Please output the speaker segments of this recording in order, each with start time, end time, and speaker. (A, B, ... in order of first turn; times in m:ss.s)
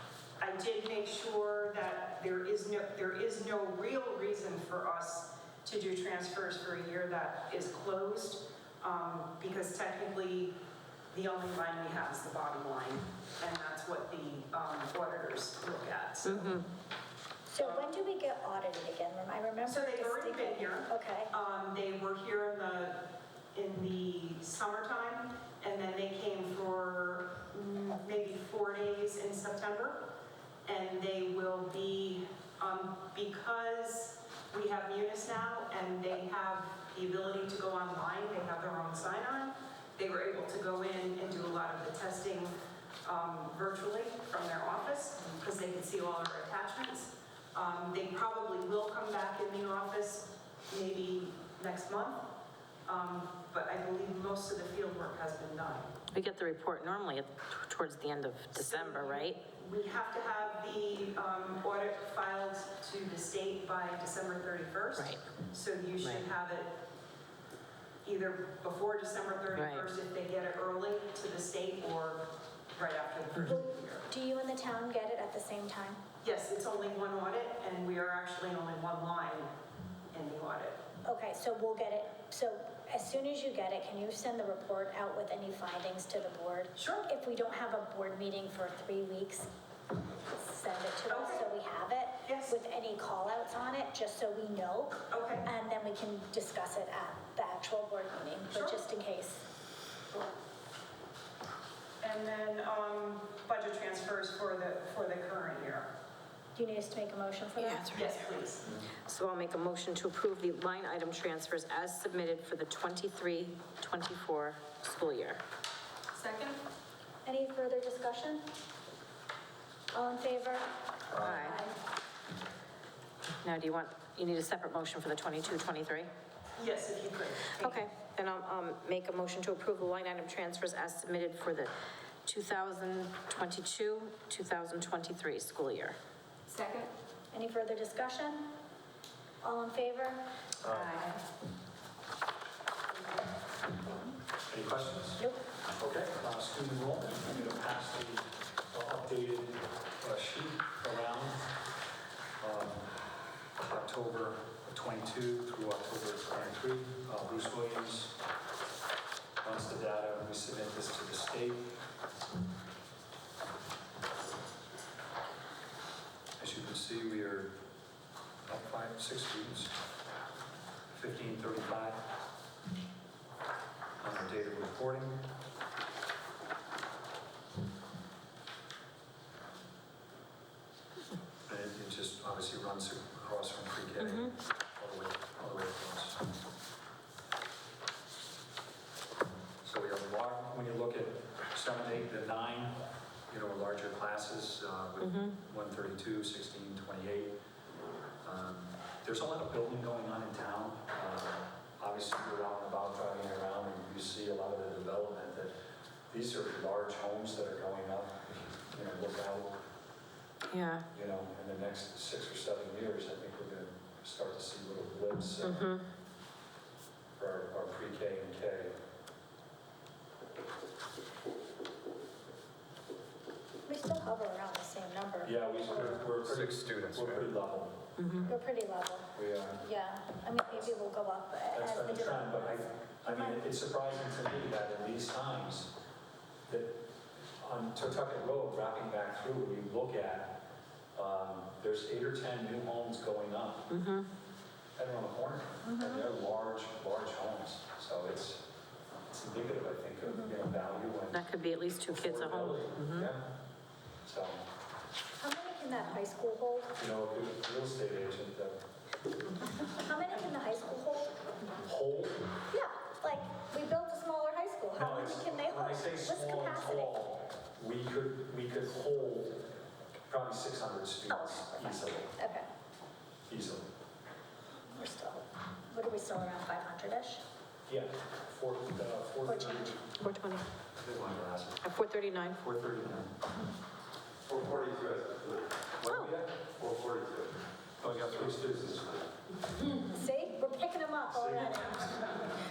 0:00.4-0:10.6 A
0:11.1-0:16.7 A
0:16.2-0:16.7 B
0:17.5-0:21.3 C
0:17.6-0:17.9 A
0:19.6-0:30.1 A
0:30.6-0:52.3 A
0:52.8-0:55.9 A
0:56.1-0:59.4 B
0:58.5-1:06.8 A
1:05.0-1:05.2 B
1:08.0-1:14.0 A
1:09.5-1:09.9 B
1:13.5-1:16.0 C
1:16.2-1:19.5 A
1:20.1-1:20.8 A
1:21.0-1:29.5 C
1:26.8-1:27.1 A
1:30.4-1:39.4 C
1:31.1-1:31.5 A
1:32.2-1:32.6 A
1:35.1-1:35.5 A
1:38.5-1:38.8 A
1:42.0-1:45.9 A
1:46.5-1:47.9 C
1:47.6-1:55.4 B
1:47.9-1:48.7 A
1:56.2-1:56.5 A
1:57.2-1:58.4 C
1:59.9-2:00.8 C
2:01.1-2:01.6 B
2:01.2-2:01.4 D
2:01.4-2:01.7 C
2:03.4-2:06.1 B
2:06.6-2:07.8 A
2:07.6-2:11.7 B
2:12.2-2:16.0 B
2:16.5-2:16.8 A
2:17.3-2:18.5 C
2:19.4-2:20.4 C
2:20.6-2:21.1 D
2:24.5-2:25.2 D
2:25.8-2:31.5 D
2:32.4-2:32.9 D
2:33.6-2:38.2 D
2:39.4-2:41.8 D
2:46.4-2:47.6 D
2:48.4-2:49.7 D
2:50.9-2:52.1 D
2:54.0-2:55.3 D
3:01.5-3:06.3 D
3:04.0-3:04.3 B
3:09.6-3:12.8 D
3:13.3-3:17.4 D
3:15.0-3:15.4 B
3:18.2-3:25.5 D
3:26.1-3:29.6 D
3:30.5-3:30.8 B
3:30.9-3:35.7 D
3:35.4-3:35.8 B
3:37.2-3:38.7 D
3:43.6-3:45.9 C
3:45.2-3:47.8 D
3:46.0-3:47.2 E
3:48.0-3:48.3 B
3:48.3-3:53.4 C
3:49.1-3:49.6 D
3:51.5-3:55.7 D
3:56.5-3:56.8 D
3:57.4-4:00.4 D
4:00.9-4:03.7 D
4:03.7-4:04.1 B
4:04.8-4:08.4 D
4:05.6-4:06.0 C
4:09.1-4:13.3 D
4:11.1-4:13.1 B
4:14.0-4:14.4 D
4:15.2-4:16.7 C
4:16.8-4:18.6 D
4:19.5-4:21.1 C
4:21.6-4:22.3 D
4:22.5-4:26.9 C
4:24.8-4:29.5 D
4:30.1-4:32.1 D
4:31.1-4:32.5 C
4:33.2-4:33.6 D
4:34.7-4:37.2 C
4:37.7-4:39.8 D
4:39.2-4:39.8 C
4:39.9-4:40.4 B
4:40.8-4:41.6 D
4:41.6-4:42.4 B
4:42.4-4:43.1 D
4:44.3-4:45.4 E
4:45.8-4:46.6 D
4:45.8-4:46.2 B
4:46.6-4:47.3 E
4:47.8-4:48.9 D
4:49.7-4:52.0 C
4:51.1-4:52.0 D